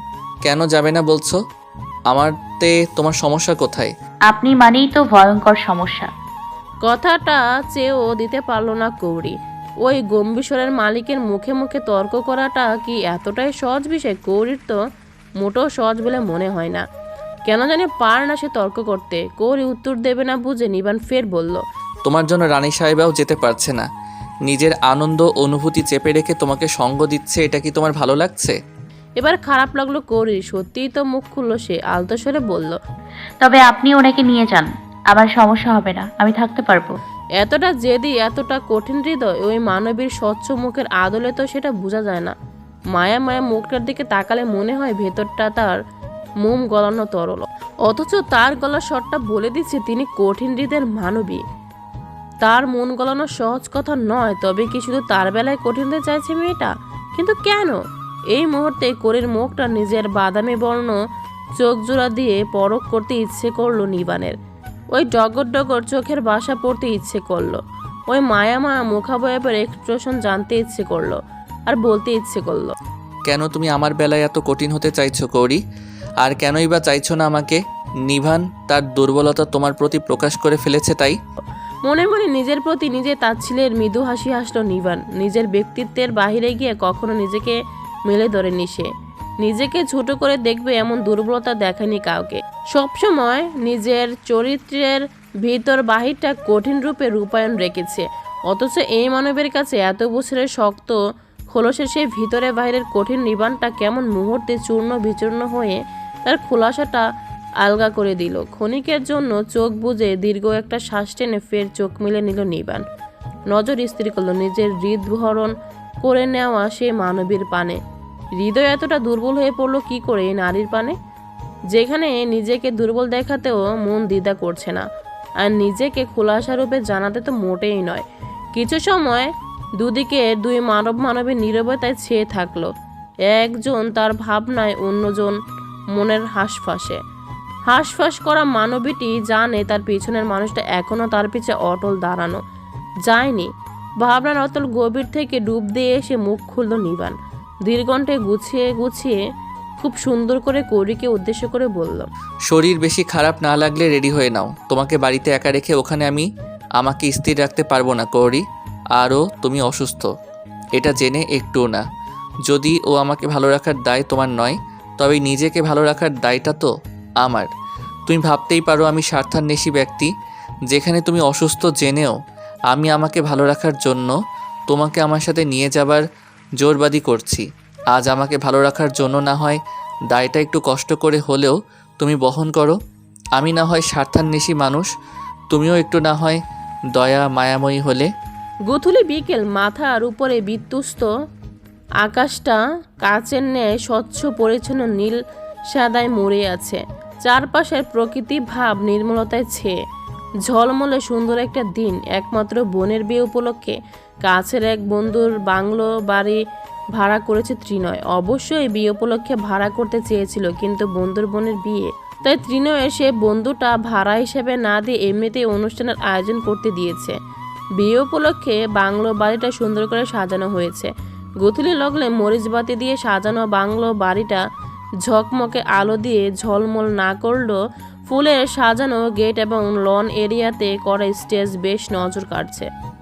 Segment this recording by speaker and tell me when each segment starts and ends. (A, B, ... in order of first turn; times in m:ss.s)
0:00.4-0:01.4 A
0:02.1-0:03.9 A
0:04.3-0:06.1 B
0:06.8-0:14.8 C
0:15.4-0:16.8 C
0:17.5-0:21.6 C
0:22.0-0:23.8 A
0:24.5-0:28.6 A
0:29.2-0:32.8 C
0:33.4-0:36.9 B
0:37.4-0:42.4 C
0:42.9-0:45.8 C
0:46.4-0:51.4 C
0:52.4-0:57.8 C
0:58.3-1:01.0 C
1:01.6-1:04.4 C
1:04.9-1:12.8 C
1:13.3-1:15.6 A
1:16.2-1:21.2 A
1:21.8-1:28.9 C
1:29.4-1:41.0 C
1:41.5-1:47.0 C
1:47.6-1:52.8 C
1:53.5-1:57.8 C
1:58.4-2:00.9 C
2:01.7-2:04.8 C
2:05.4-2:08.0 C
2:08.6-2:12.7 C
2:13.3-2:15.4 C
2:15.9-2:17.0 C
2:17.7-2:22.4 C
2:23.0-2:23.5 C
2:24.0-2:29.2 C
2:29.8-2:32.1 C
2:32.5-2:36.3 A
2:36.8-2:38.4 A
2:39.0-2:40.1 A
2:40.8-2:41.8 A
2:42.4-2:46.7 A
2:47.2-2:47.5 A
2:48.1-2:50.1 A
2:50.7-2:52.2 A
2:52.7-2:54.1 A
2:54.7-2:56.0 A
2:56.6-2:59.6 A
3:00.1-3:02.8 A
3:03.4-3:04.9 A
3:05.5-3:06.4 A
3:06.9-3:08.1 A
3:08.7-3:11.1 C
3:12.0-3:15.2 C
3:15.7-3:19.7 C
3:20.5-3:26.4 C
3:27.0-3:37.2 C
3:37.8-3:40.9 C
3:41.4-3:44.4 C
3:45.0-3:52.7 C